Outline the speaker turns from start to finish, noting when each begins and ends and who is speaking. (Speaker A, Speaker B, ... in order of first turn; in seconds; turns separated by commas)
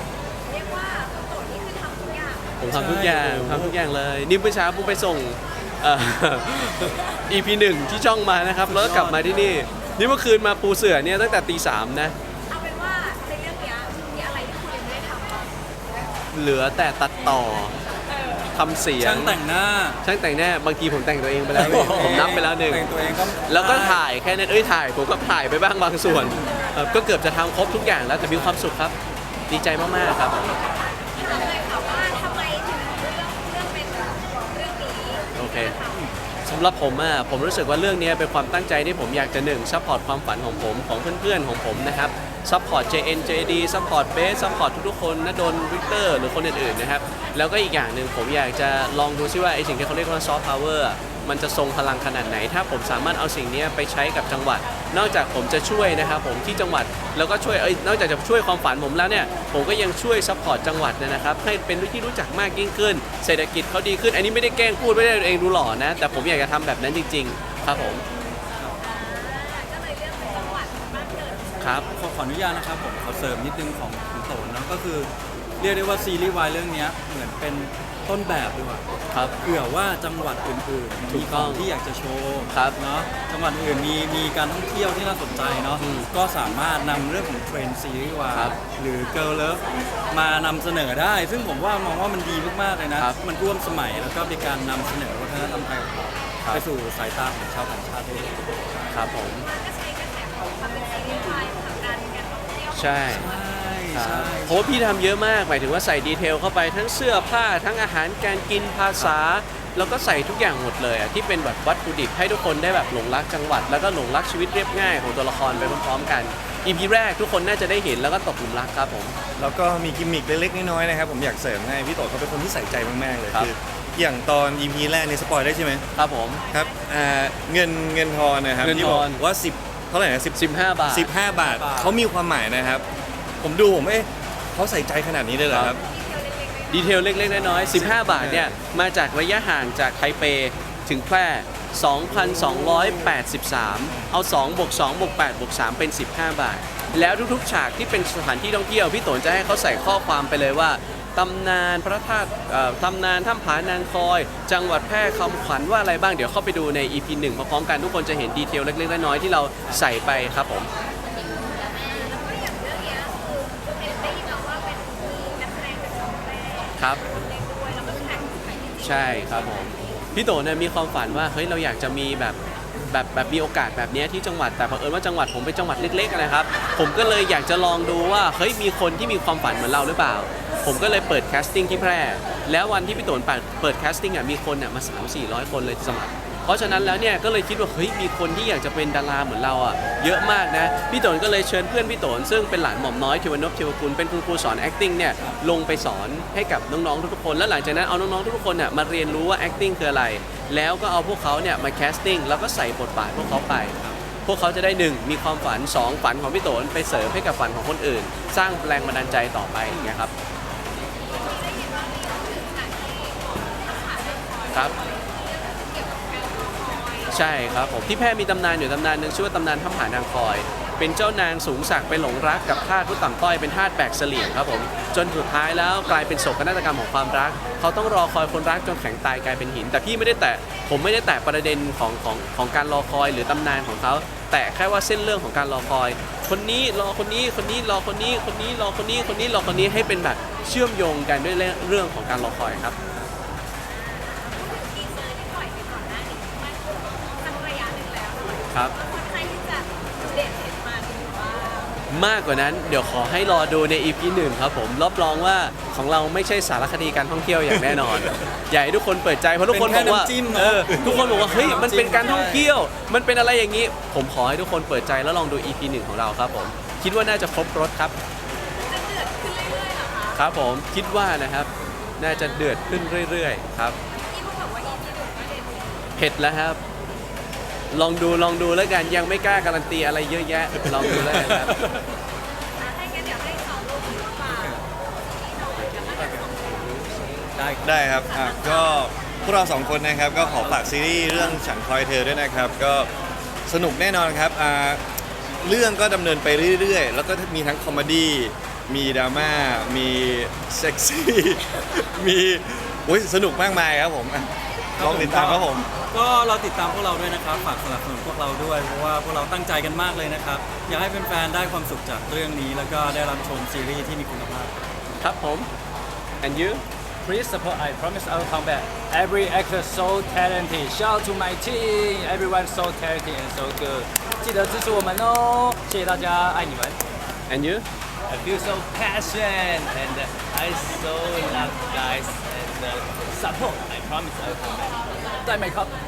Speaker A: 0.4-2.6, Speaker B: 2.6-12.2, Speaker C: 2.7-3.8, Speaker C: 8.6-9.6, Speaker A: 12.5-15.5, Speaker B: 16.3-17.8, Speaker B: 18.5-19.4, Speaker C: 19.0-20.0, Speaker B: 20.0-22.9, Speaker C: 21.5-24.0, Speaker B: 23.5-28.9, Speaker C: 26.1-26.4, Speaker C: 28.2-28.6, Speaker B: 29.5-30.6, Speaker A: 31.2-36.1, Speaker B: 35.4-35.8, Speaker B: 36.5-68.0, Speaker A: 68.8-71.6, Speaker B: 71.6-71.9, Speaker C: 71.9-78.8, Speaker C: 79.4-98.7, Speaker B: 81.0-81.7, Speaker B: 82.5-82.8, Speaker B: 85.8-86.1, Speaker B: 98.9-99.5, Speaker A: 99.4-103.2, Speaker B: 102.7-103.3, Speaker C: 103.1-105.0, Speaker B: 103.9-119.2, Speaker D: 119.4-125.8, Speaker B: 126.0-126.4, Speaker D: 126.5-132.8, Speaker B: 128.6-129.2, Speaker B: 130.3-131.1, Speaker C: 131.3-131.9, Speaker D: 133.4-135.8, Speaker B: 135.5-135.8, Speaker A: 135.8-137.3, Speaker B: 136.7-160.7, Speaker C: 137.3-138.0, Speaker D: 137.7-138.6, Speaker A: 161.4-169.9, Speaker B: 168.8-210.1, Speaker A: 211.0-217.2, Speaker B: 217.1-242.8, Speaker A: 243.7-251.8, Speaker B: 251.9-267.9, Speaker C: 259.5-262.5, Speaker A: 260.9-261.3, Speaker A: 268.6-270.2, Speaker B: 270.1-273.8, Speaker A: 273.9-275.9, Speaker B: 276.0-276.6, Speaker B: 277.7-281.7, Speaker C: 281.0-281.3, Speaker A: 282.6-287.2, Speaker C: 284.3-284.6, Speaker C: 285.8-287.8, Speaker D: 287.6-292.9, Speaker A: 287.9-288.9, Speaker C: 290.1-291.4, Speaker D: 293.5-294.8, Speaker D: 295.4-305.7, Speaker C: 304.8-314.6, Speaker B: 315.0-315.5, Speaker B: 316.2-316.6, Speaker E: 317.1-326.8, Speaker B: 327.3-327.6, Speaker E: 328.1-335.7